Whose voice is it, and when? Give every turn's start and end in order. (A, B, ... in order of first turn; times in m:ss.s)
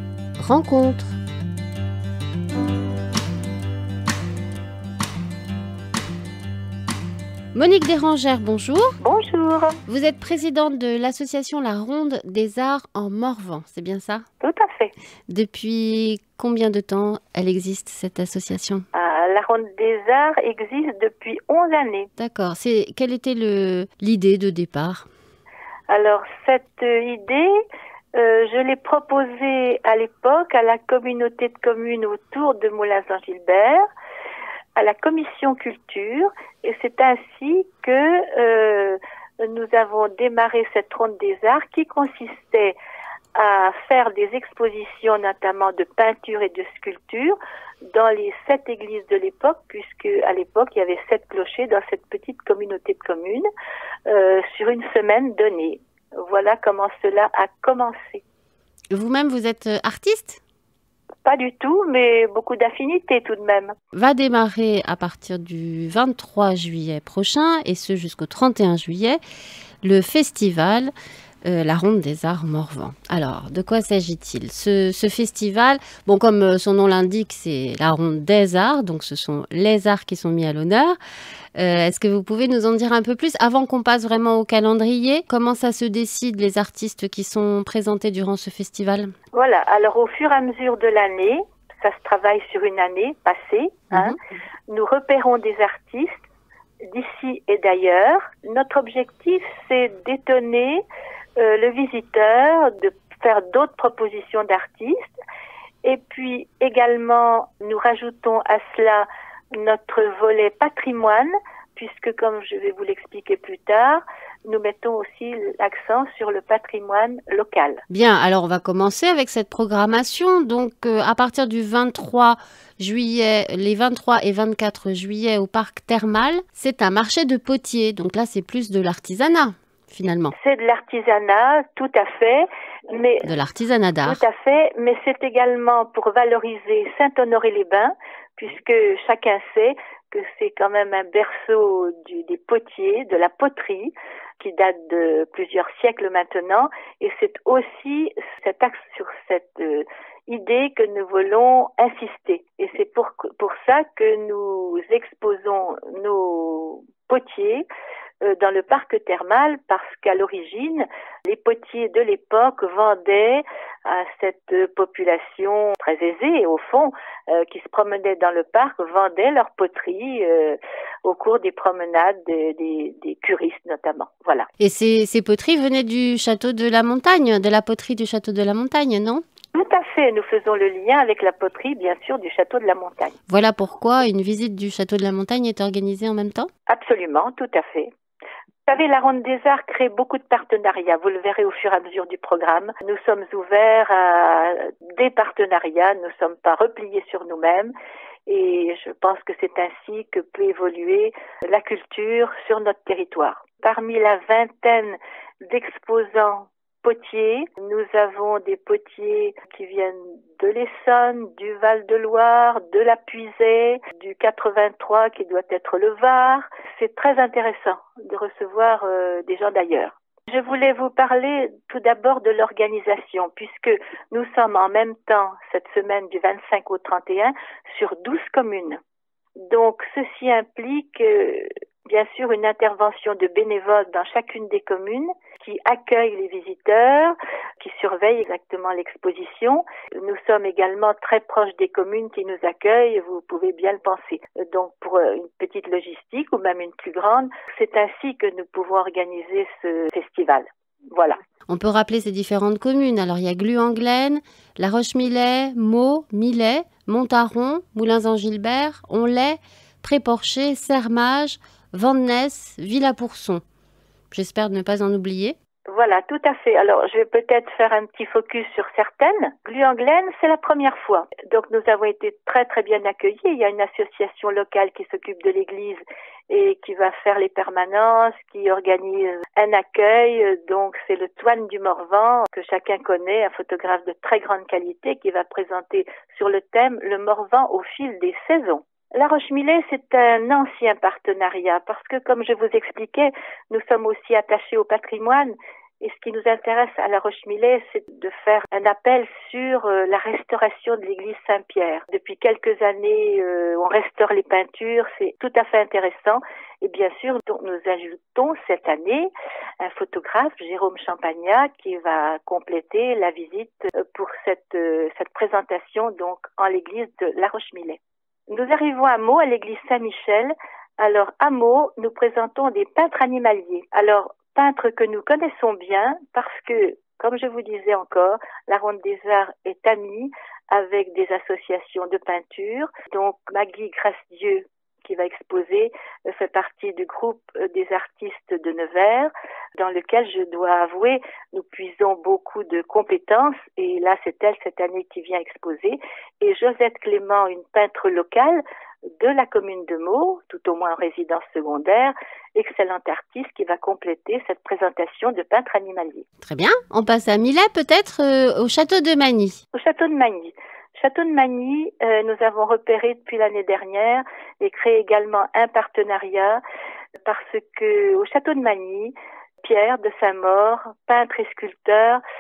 0:00.4-0:01.2 A
0:07.5-0:09.0 A
0:09.0-0:09.8 B
0:09.9-0:14.2 A
0:14.4-0:14.9 B
0:15.3-0:18.8 A
0:18.9-0:22.1 B
0:22.2-0:25.1 A
0:25.9-0:27.6 B
0:28.1-0:33.8 B
0:34.8-0:42.8 B
0:43.3-0:47.4 B
0:47.9-0:53.4 B
0:54.1-0:58.2 B
0:58.9-1:00.4 A
1:01.2-1:03.7 B
1:03.9-1:09.2 A
1:09.8-1:10.9 A
1:11.4-1:21.0 A
1:21.6-1:29.1 A
1:29.3-1:34.2 B
1:33.9-1:34.2 A
1:34.7-1:36.2 B
1:36.9-1:40.8 B
1:41.4-1:45.2 B
1:45.8-1:57.8 B
1:57.9-2:10.3 A
2:10.3-2:13.3 B
2:13.2-2:14.2 A
2:14.0-2:37.7 B
2:38.2-2:54.5 B
2:54.6-2:59.2 A
2:59.5-3:03.2 B
3:03.3-3:06.5 A
3:06.7-3:07.9 B
3:08.7-3:17.7 B
3:18.3-3:48.8 B
3:49.4-4:11.2 B
4:11.5-4:23.4 A
4:24.1-4:25.4 A
4:25.7-5:48.4 B
5:49.0-5:56.1 B
5:56.2-5:59.4 A
5:59.5-6:06.4 B
6:07.0-6:12.0 B